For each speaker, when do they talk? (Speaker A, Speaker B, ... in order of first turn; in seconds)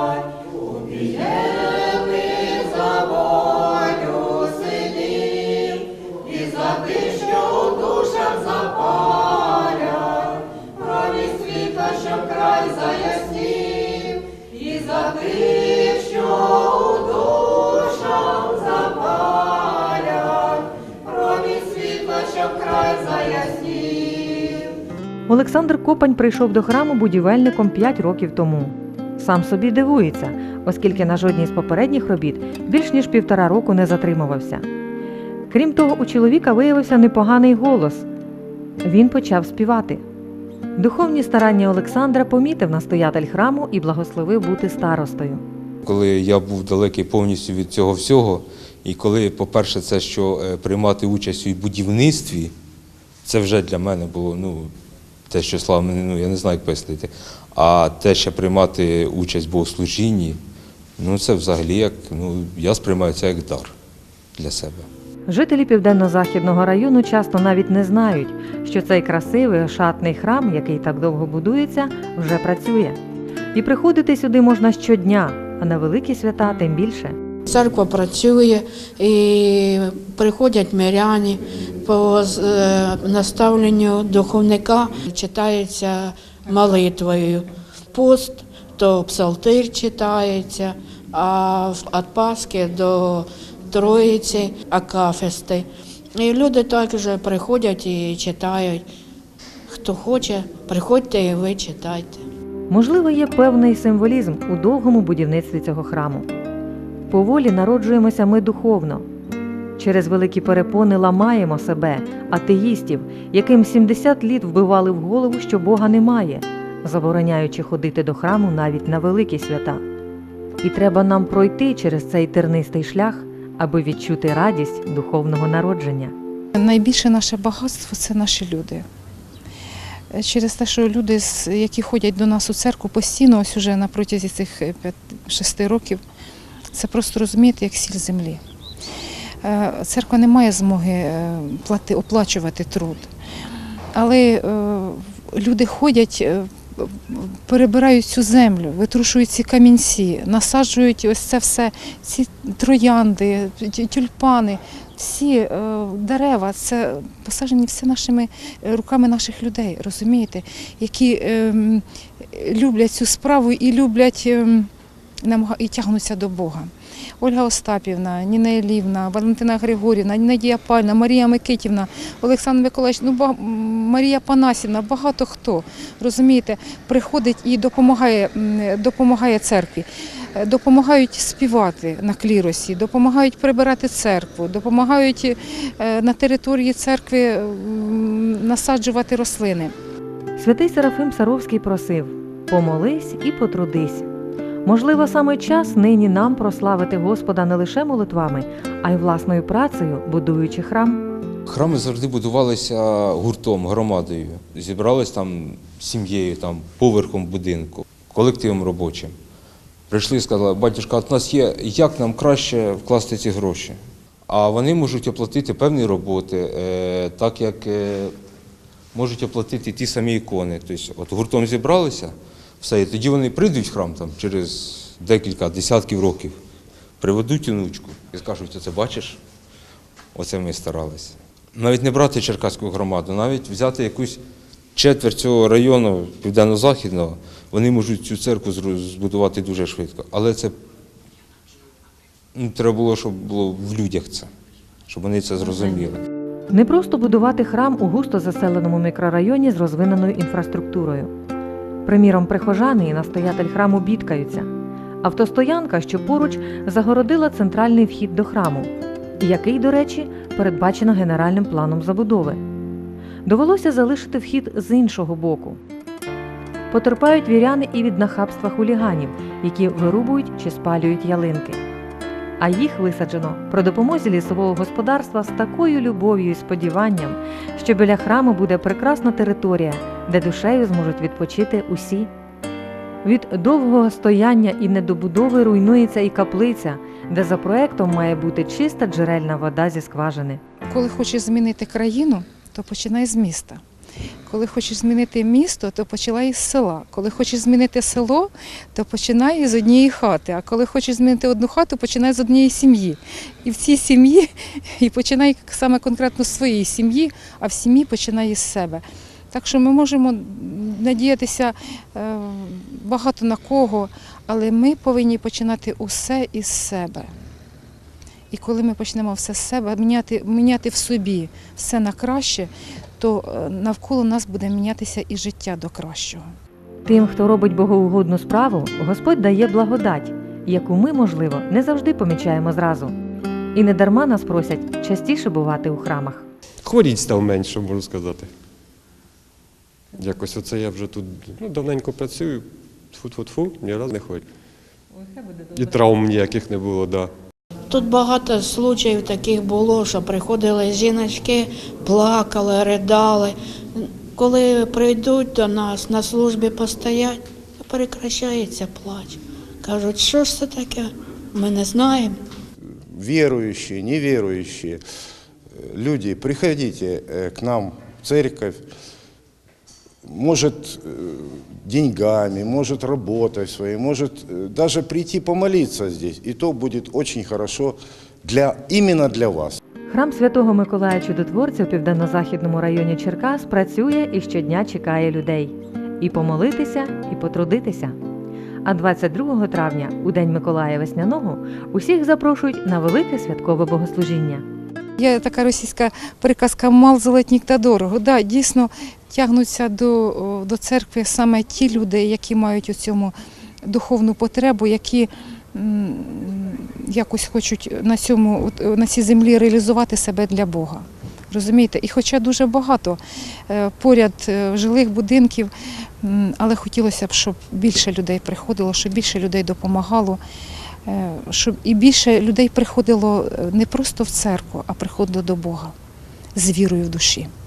Speaker A: 11.8-12.2, 25.3-34.6, 35.5-38.0, 38.8-40.0, 40.8-45.4, 65.3-73.0, 73.5-77.2, 102.7-106.3, 107.1-109.0, 109.8-119.8, 120.6-126.1, 190.4-194.1, 194.6-201.0, 246.5-251.1, 251.8-254.5, 255.0-262.4, 263.2-265.6, 266.7-271.6, 272.4-282.1, 283.0-290.4, 326.8-332.9, 333.5-336.3, 379.9-387.9, 388.6-394.4
Speaker B: 45.8-52.5, 53.2-54.7, 55.3-60.4, 61.0-63.7, 64.3-64.8, 201.4-209.1, 209.9-218.1, 218.9-226.3, 227.0-229.2, 230.1-234.2, 234.7-240.5, 242.3-244.3, 244.9-246.0
Speaker C: 77.5-98.8, 99.7-102.2, 347.7-362.1
Speaker D: 126.5-128.8, 130.1-136.0, 136.7-138.4, 139.4-143.1, 143.9-164.7, 165.2-189.7, 290.7-293.6, 294.3-317.1, 318.3-326.2, 395.0-403.1, 403.6-413.0, 413.5-415.5, 416.0-420.2, 420.9-425.7, 426.4-427.3
Speaker E: 336.6-338.3, 339.9-344.2, 345.5-347.1
Speaker F: 362.9-364.8, 365.6-368.6, 370.1-379.6